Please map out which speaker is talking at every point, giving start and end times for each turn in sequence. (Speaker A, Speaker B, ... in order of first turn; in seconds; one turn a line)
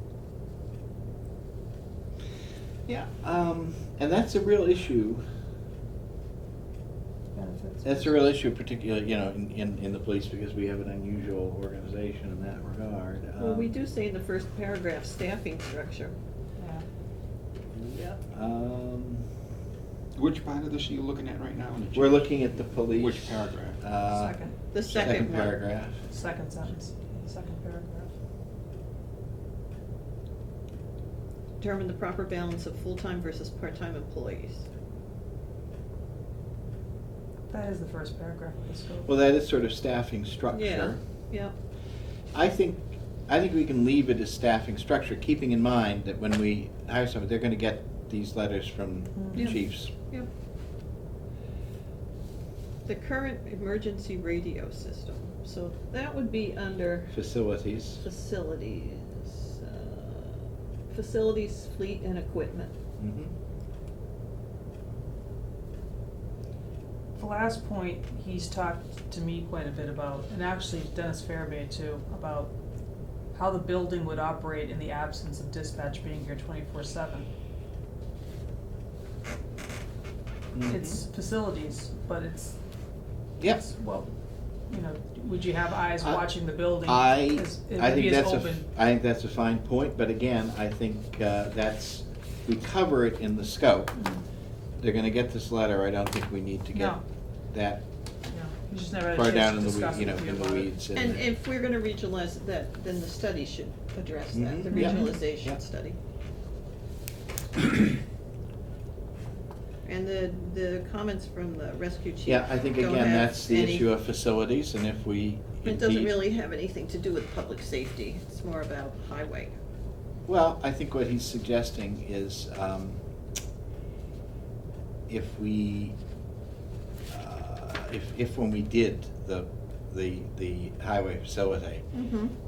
Speaker A: 2.9-5.2
Speaker B: 7.3-8.1
Speaker A: 7.8-13.7
Speaker C: 13.4-16.1
Speaker B: 16.6-16.8
Speaker C: 17.9-18.2
Speaker A: 18.2-19.2
Speaker D: 20.1-23.8
Speaker A: 21.9-26.0
Speaker B: 24.1-24.5
Speaker C: 24.7-25.6
Speaker D: 24.9-25.4
Speaker B: 26.1-28.1
Speaker C: 31.6-34.7
Speaker B: 37.5-39.1
Speaker A: 39.0-41.0
Speaker C: 40.5-41.5
Speaker A: 42.3-49.9
Speaker B: 49.2-49.6
Speaker C: 49.4-50.3
Speaker C: 52.9-57.1
Speaker A: 57.1-58.0
Speaker C: 58.0-62.8
Speaker A: 63.0-63.3
Speaker B: 67.1-72.5
Speaker B: 73.3-77.3
Speaker A: 80.5-81.0
Speaker B: 80.7-82.6
Speaker B: 83.5-84.1
Speaker B: 84.7-88.7
Speaker A: 86.8-93.9
Speaker B: 94.0-94.2
Speaker A: 94.8-97.0
Speaker B: 96.7-97.0
Speaker A: 97.5-97.8
Speaker B: 98.3-100.7
Speaker A: 99.0-101.3
Speaker C: 101.0-106.0
Speaker A: 104.3-105.2
Speaker B: 104.7-105.2
Speaker C: 109.8-113.9
Speaker A: 112.3-116.2
Speaker C: 115.6-119.5
Speaker A: 120.3-123.0
Speaker A: 125.1-126.0
Speaker A: 127.1-131.9
Speaker C: 131.9-132.3